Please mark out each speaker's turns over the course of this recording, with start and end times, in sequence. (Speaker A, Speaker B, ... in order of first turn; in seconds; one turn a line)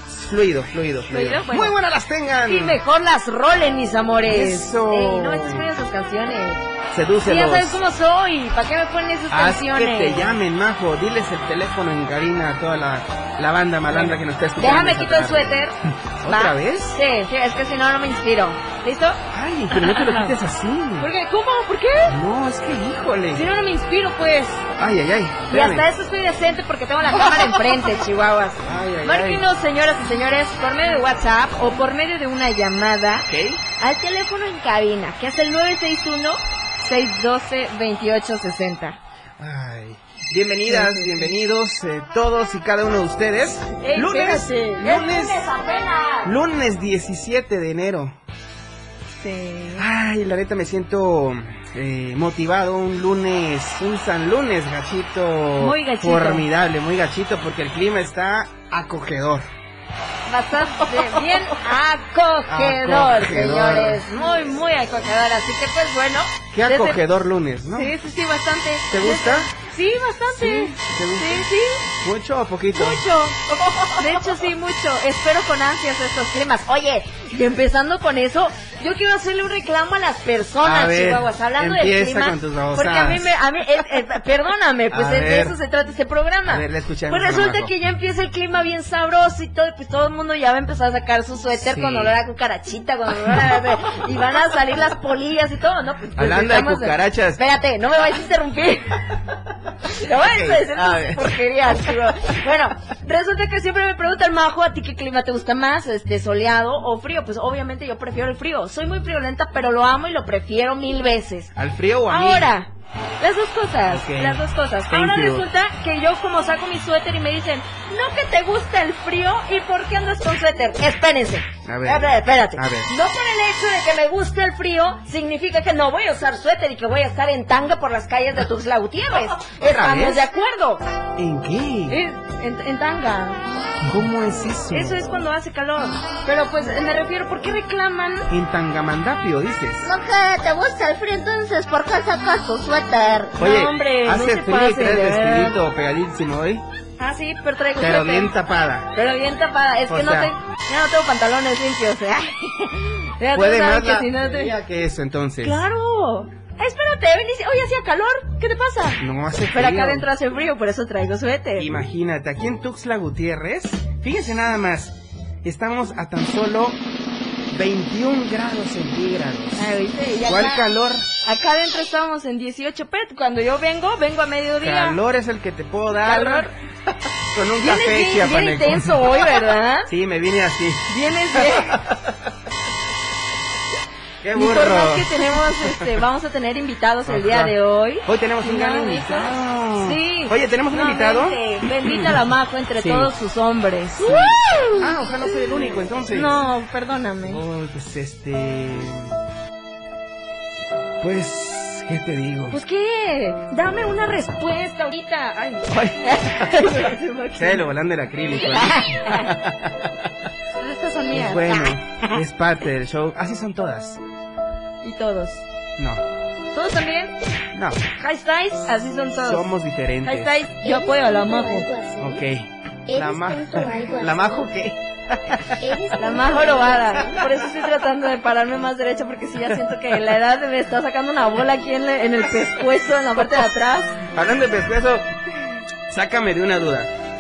Speaker A: 0.1-2.8
Speaker B: 1.1-1.8
Speaker B: 2.5-6.6
Speaker A: 4.2-5.7
Speaker A: 6.9-7.8
Speaker B: 7.2-10.4
Speaker A: 9.3-15.6
Speaker B: 13.9-19.2
Speaker A: 16.2-17.0
Speaker A: 19.3-21.1
Speaker B: 19.7-20.3
Speaker B: 21.0-22.1
Speaker A: 22.1-23.4
Speaker B: 23.3-24.7
Speaker A: 24.8-25.9
Speaker B: 25.5-33.3
Speaker A: 28.6-29.4
Speaker A: 33.3-33.6
Speaker B: 33.8-39.0
Speaker A: 39.4-45.5
Speaker B: 40.7-41.3
Speaker B: 43.8-46.3
Speaker A: 46.2-48.2
Speaker B: 49.2-49.9
Speaker A: 49.8-59.5
Speaker B: 55.6-56.5
Speaker B: 60.3-67.0
Speaker A: 62.5-64.0
Speaker A: 66.5-67.9
Speaker B: 67.7-71.8
Speaker A: 68.9-69.5
Speaker A: 70.3-71.5
Speaker A: 72.0-73.0
Speaker B: 72.7-98.9
Speaker A: 73.7-74.0
Speaker A: 80.6-83.3
Speaker A: 84.9-85.6
Speaker A: 86.5-87.7
Speaker A: 91.6-92.1
Speaker A: 96.2-97.4
Speaker B: 99.9-111.5
Speaker A: 100.2-101.3
Speaker A: 111.5-112.5
Speaker B: 112.1-130.8
Speaker A: 113.9-115.5
Speaker A: 121.7-122.9
Speaker A: 129.6-130.2
Speaker A: 131.2-132.0
Speaker B: 131.9-133.4
Speaker A: 133.9-135.0
Speaker B: 134.7-138.3
Speaker A: 138.3-139.9
Speaker B: 139.8-145.6
Speaker A: 143.4-146.6
Speaker B: 147.0-148.3
Speaker A: 147.8-148.9
Speaker B: 148.9-154.6
Speaker A: 149.9-150.3
Speaker A: 153.3-155.6
Speaker B: 155.4-159.0
Speaker A: 159.0-160.1
Speaker B: 159.5-161.7
Speaker A: 161.6-166.8
Speaker A: 167.5-169.7
Speaker B: 169.6-170.6
Speaker A: 170.3-171.1
Speaker B: 171.2-175.0
Speaker A: 174.6-176.5
Speaker B: 176.0-176.5
Speaker A: 177.3-179.2
Speaker B: 177.6-179.9
Speaker A: 179.9-182.2
Speaker B: 180.9-181.8
Speaker A: 184.2-185.2
Speaker B: 184.3-197.4
Speaker A: 187.1-187.6
Speaker A: 188.1-192.2
Speaker A: 192.8-193.1
Speaker A: 194.0-196.4
Speaker A: 197.2-199.2
Speaker A: 201.0-202.6
Speaker B: 202.5-207.7
Speaker A: 205.7-206.8
Speaker A: 207.4-209.9
Speaker B: 208.4-209.3
Speaker B: 210.6-211.7
Speaker A: 211.1-214.0
Speaker B: 214.8-215.4
Speaker A: 215.8-216.0
Speaker B: 216.5-217.1
Speaker A: 217.5-217.8
Speaker B: 218.0-219.5
Speaker A: 219.2-220.4
Speaker B: 220.0-221.8
Speaker C: 220.6-222.2
Speaker A: 222.0-225.6
Speaker C: 222.9-224.5
Speaker C: 225.6-226.8
Speaker B: 225.9-234.0
Speaker A: 234.1-235.1
Speaker A: 235.9-236.9